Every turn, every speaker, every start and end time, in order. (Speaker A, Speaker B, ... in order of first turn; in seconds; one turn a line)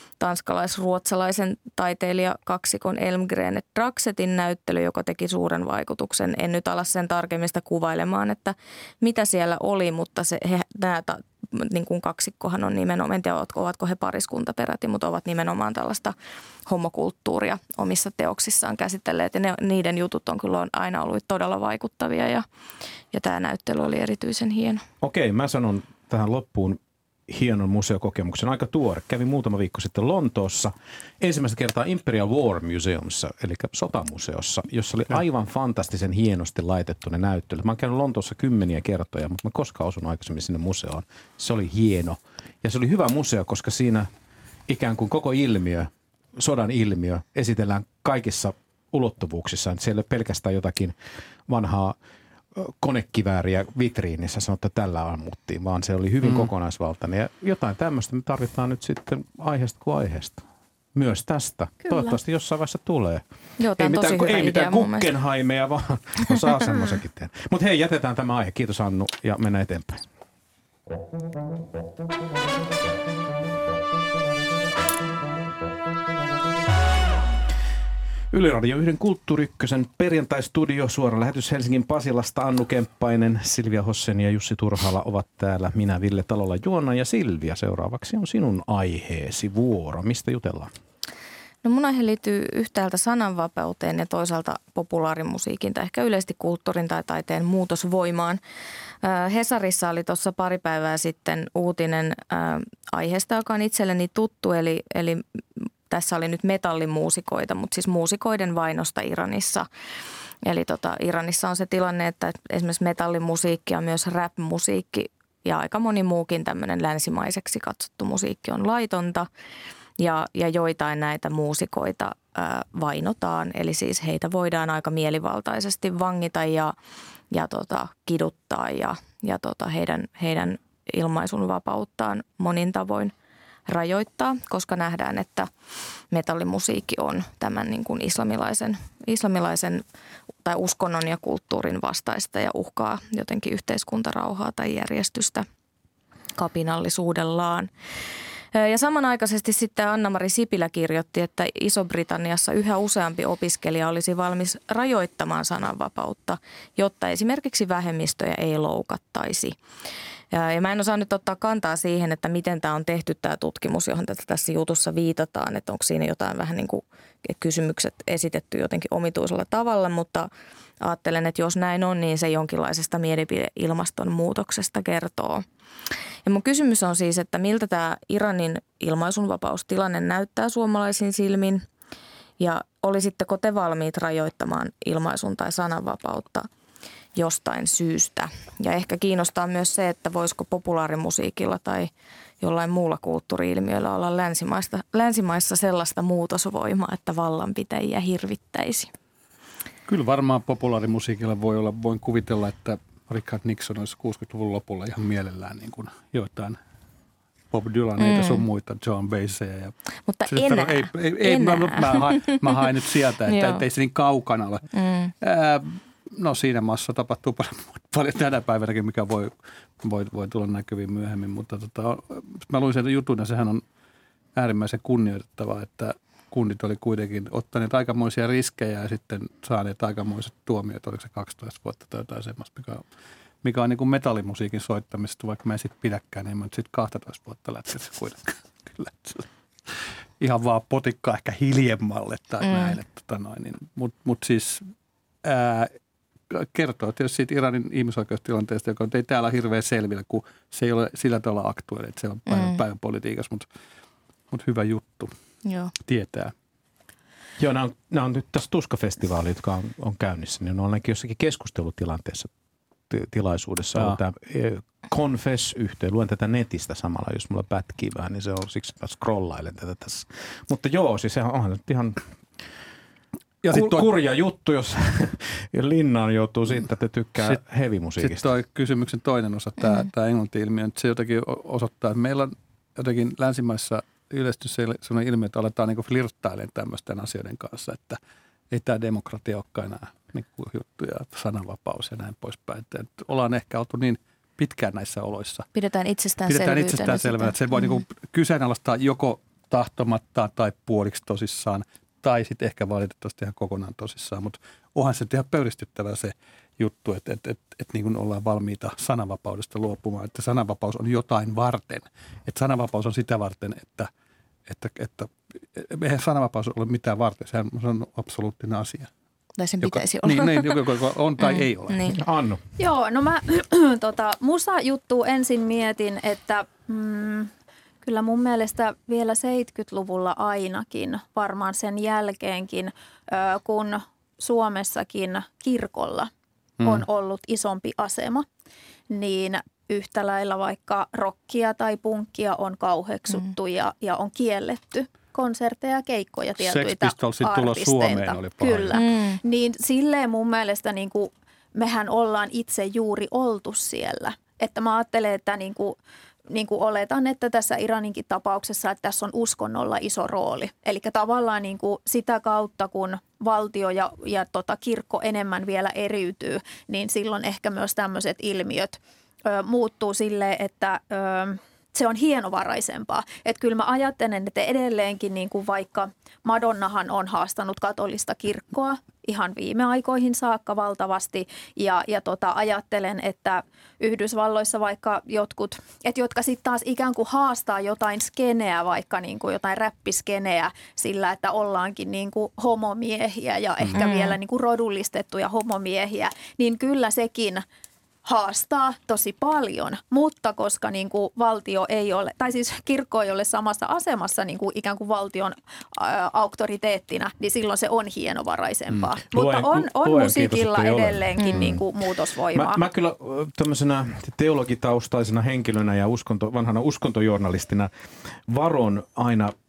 Speaker A: 0.2-16.1
Speaker A: 16.7-22.4
Speaker A: 23.1-24.8
Speaker B: 25.0-44.1
Speaker B: 44.7-50.9
Speaker B: 51.5-52.0
Speaker B: 52.5-60.4
Speaker C: 56.2-56.5
Speaker B: 60.9-63.2
Speaker D: 61.9-62.1
Speaker A: 63.6-65.1
Speaker B: 63.8-70.0
Speaker D: 66.7-67.0
Speaker B: 78.3-90.7
Speaker A: 91.6-98.4
Speaker A: 99.0-105.2
Speaker A: 105.9-109.7
Speaker A: 110.4-119.3
Speaker A: 120.0-126.7
Speaker A: 127.3-133.1
Speaker A: 133.7-135.5
Speaker A: 136.1-139.8
Speaker A: 140.4-145.4
Speaker A: 146.4-147.7
Speaker A: 148.5-159.5
Speaker A: 160.3-170.3
Speaker A: 170.8-175.4
Speaker A: 176.2-181.6
Speaker A: 182.4-186.5
Speaker A: 187.1-198.9
Speaker C: 199.9-206.6
Speaker C: 207.5-209.7
Speaker A: 208.0-208.4
Speaker A: 210.1-212.4
Speaker C: 210.3-214.7
Speaker A: 213.3-213.6
Speaker A: 214.7-215.1
Speaker C: 215.2-223.6
Speaker C: 224.3-232.8
Speaker C: 233.4-244.7
Speaker A: 242.4-242.8
Speaker C: 245.2-245.7
Speaker C: 246.3-253.5
Speaker A: 252.3-252.6
Speaker C: 254.3-255.1
Speaker A: 255.4-255.7
Speaker C: 255.8-256.3
Speaker B: 257.4-262.3
Speaker B: 262.9-272.0
Speaker C: 273.4-273.9
Speaker B: 273.5-278.2
Speaker C: 278.0-288.0
Speaker C: 288.5-295.5
Speaker A: 295.5-297.8
Speaker C: 296.3-313.9
Speaker C: 314.4-318.9
Speaker A: 319.4-320.6
Speaker C: 319.6-321.8
Speaker A: 321.2-322.0
Speaker B: 321.9-322.4
Speaker D: 322.6-327.3
Speaker D: 327.8-336.1
Speaker D: 336.6-338.2
Speaker D: 338.9-355.8
Speaker C: 346.4-348.8
Speaker A: 348.7-349.2
Speaker D: 356.3-397.4
Speaker A: 393.7-394.2
Speaker D: 398.0-412.6
Speaker B: 409.1-411.6
Speaker B: 412.3-419.3